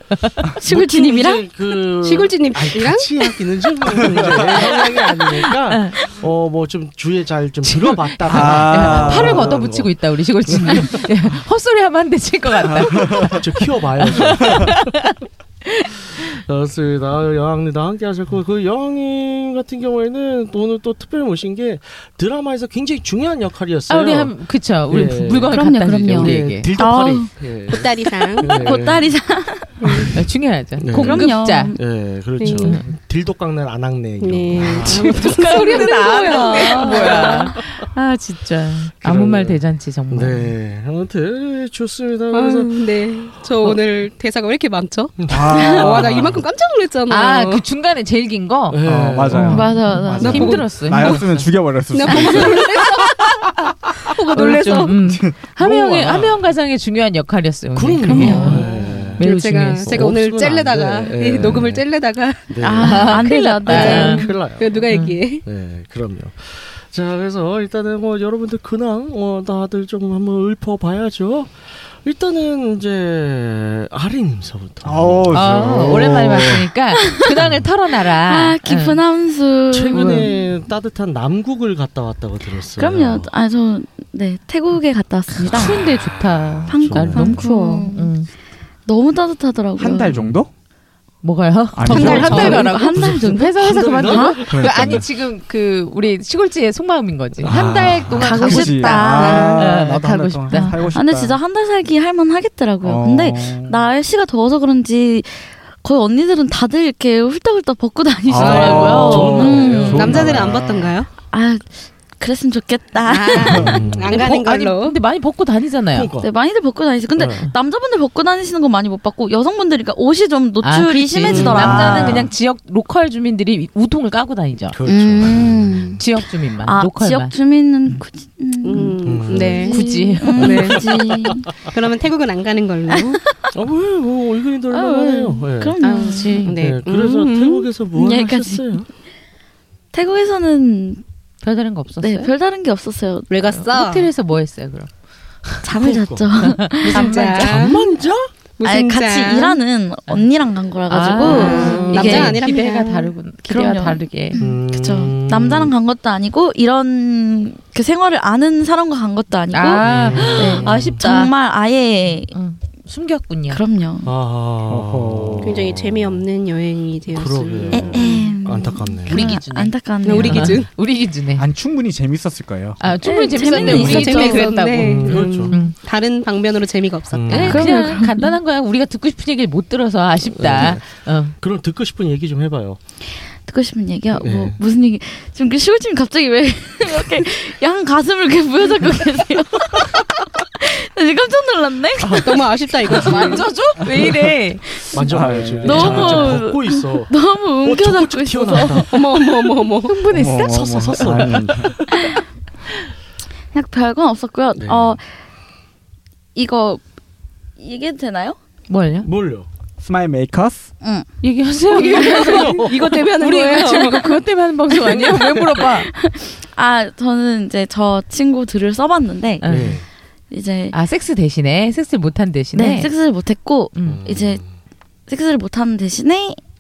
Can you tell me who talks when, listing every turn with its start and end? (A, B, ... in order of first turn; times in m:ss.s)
0:00.1-0:00.4 A
0:00.5-0:11.1 B
0:00.6-0:01.4 C
0:02.0-0:03.3 D
0:04.9-0:06.0 A
0:07.6-0:16.3 A
0:08.3-0:09.5 E
0:12.6-0:13.5 E
0:13.0-0:14.9 B
0:14.4-0:14.7 E
0:16.2-0:29.1 B
0:23.9-0:26.7 A
0:25.5-0:27.3 C
0:27.7-0:28.7 D
0:28.4-0:30.1 C
0:29.8-0:30.1 D
0:30.1-0:31.8 A
0:30.8-0:35.7 B
0:30.9-0:31.8 C
0:32.4-0:32.8 D
0:32.4-0:32.9 A
0:34.2-0:37.5 D
0:34.6-0:40.6 A
0:35.4-0:37.5 C
0:37.0-0:37.9 B
0:39.0-0:42.8 B
0:42.3-0:47.6 D
0:45.2-0:46.4 B
0:45.3-0:46.4 E
0:45.5-0:45.9 C
0:47.1-0:51.5 A
0:48.7-0:49.8 B
0:48.8-0:53.2 E
0:49.5-0:50.6 C
0:50.2-0:51.2 D
0:51.9-0:55.0 D
0:54.3-1:00.1 A
0:55.0-0:56.3 E
0:55.8-0:56.4 B
0:57.7-0:59.3 B
0:58.1-0:58.7 C
0:58.1-1:02.7 D
0:59.8-1:01.9 B
1:02.5-1:04.9 B
1:02.6-1:04.3 C
1:02.8-1:04.3 A
1:03.7-1:05.5 D
1:04.9-1:05.2 A
1:05.4-1:15.6 B
1:14.8-1:16.7 E
1:15.3-1:19.0 A
1:18.1-1:20.4 C
1:19.7-1:23.3 B
1:19.9-1:20.3 A
1:22.8-1:25.8 C
1:25.3-1:28.3 A
1:25.7-1:26.0 B
1:26.6-1:27.4 B
1:26.7-1:28.2 C
1:28.9-1:30.2 C
1:29.8-1:30.5 E
1:31.2-1:40.9 A
1:31.7-1:32.8 E
1:31.9-1:32.7 D
1:31.9-1:34.4 C
1:32.0-1:35.0 B
1:34.5-1:35.0 E
1:37.4-1:38.4 B
1:37.5-1:41.4 E
1:38.2-1:39.7 C
1:39.2-1:39.6 D
1:40.5-1:50.3 C
1:42.8-1:43.8 E
1:48.3-1:50.9 E
1:48.4-1:50.6 B
1:48.4-1:49.0 D
1:48.7-1:49.2 A
1:49.9-1:51.1 D
1:51.3-1:53.8 C
1:53.0-1:55.0 D
1:53.5-1:54.2 B
1:54.1-1:56.1 A
1:55.9-1:56.3 B
1:56.2-2:02.3 C
1:57.2-1:57.5 B
2:00.6-2:04.8 A
2:01.3-2:02.3 B
2:04.7-2:06.0 B
2:04.9-2:06.0 C
2:06.0-2:07.3 A
2:06.6-2:11.5 C
2:08.6-2:10.8 D
2:09.0-2:09.8 B
2:09.6-2:10.7 A
2:10.4-2:11.7 B
2:11.7-2:13.2 D
2:13.5-2:15.8 B
2:14.7-2:16.4 C
2:15.8-2:17.7 D
2:15.9-2:16.6 A
2:16.6-2:18.9 B
2:17.9-2:18.8 C
2:19.9-2:21.0 C
2:21.4-2:22.3 A
2:22.0-2:23.6 C
2:23.3-2:24.1 D
2:23.6-2:24.9 A
2:25.6-2:27.2 C
2:25.8-2:26.5 B
2:26.4-2:27.8 A
2:26.8-2:27.9 D
2:27.4-2:28.3 B
2:28.6-2:29.6 D
2:28.6-2:32.4 C
2:30.9-2:34.4 A
2:31.1-2:33.1 D
2:31.6-2:32.2 B
2:33.5-2:42.3 C
2:34.4-2:35.7 B
2:39.5-2:41.3 A
2:39.8-2:41.1 B
2:42.3-2:43.6 A
2:43.5-2:44.1 C
2:44.0-2:46.2 B
2:44.7-2:45.7 E
2:45.4-2:48.3 D
2:47.1-2:49.4 B
2:47.7-2:50.6 C
2:49.1-2:51.5 A
2:50.0-2:50.7 D
2:50.2-2:50.5 B
2:51.4-2:52.8 E
2:52.8-2:55.8 A
2:53.0-2:54.5 C
2:53.5-2:55.6 B
2:53.6-2:57.6 D
2:57.1-2:57.8 B
2:57.3-3:01.4 A
2:57.4-2:58.4 C
3:00.3-3:00.9 B
3:01.4-3:02.8 B
3:03.5-3:13.0 C
3:04.2-3:04.6 B
3:12.1-3:13.5 D
3:12.9-3:14.7 A
3:14.9-3:19.0 B
3:15.1-3:16.4 E
3:15.6-3:18.9 C
3:18.9-3:20.0 D
3:19.8-3:21.7 A
3:20.1-3:21.8 E
3:20.4-3:21.8 B
3:23.5-3:25.1 C
3:24.6-3:25.0 B
3:26.4-3:26.8 C
3:27.6-3:28.4 C
3:28.7-3:29.1 A
3:29.0-3:29.5 B
3:29.8-3:30.7 E
3:30.8-3:31.1 C
3:31.2-3:35.9 A
3:31.7-3:34.2 D
3:32.1-3:32.9 B
3:34.8-3:35.3 D
3:35.6-3:39.5 C
3:39.4-3:39.8 A
3:39.5-3:39.9 B
3:40.3-3:40.8 C
3:40.7-3:42.9 A
3:42.5-3:44.4 C
3:43.8-3:44.0 A
3:43.9-3:44.5 B
3:45.1-3:46.4 C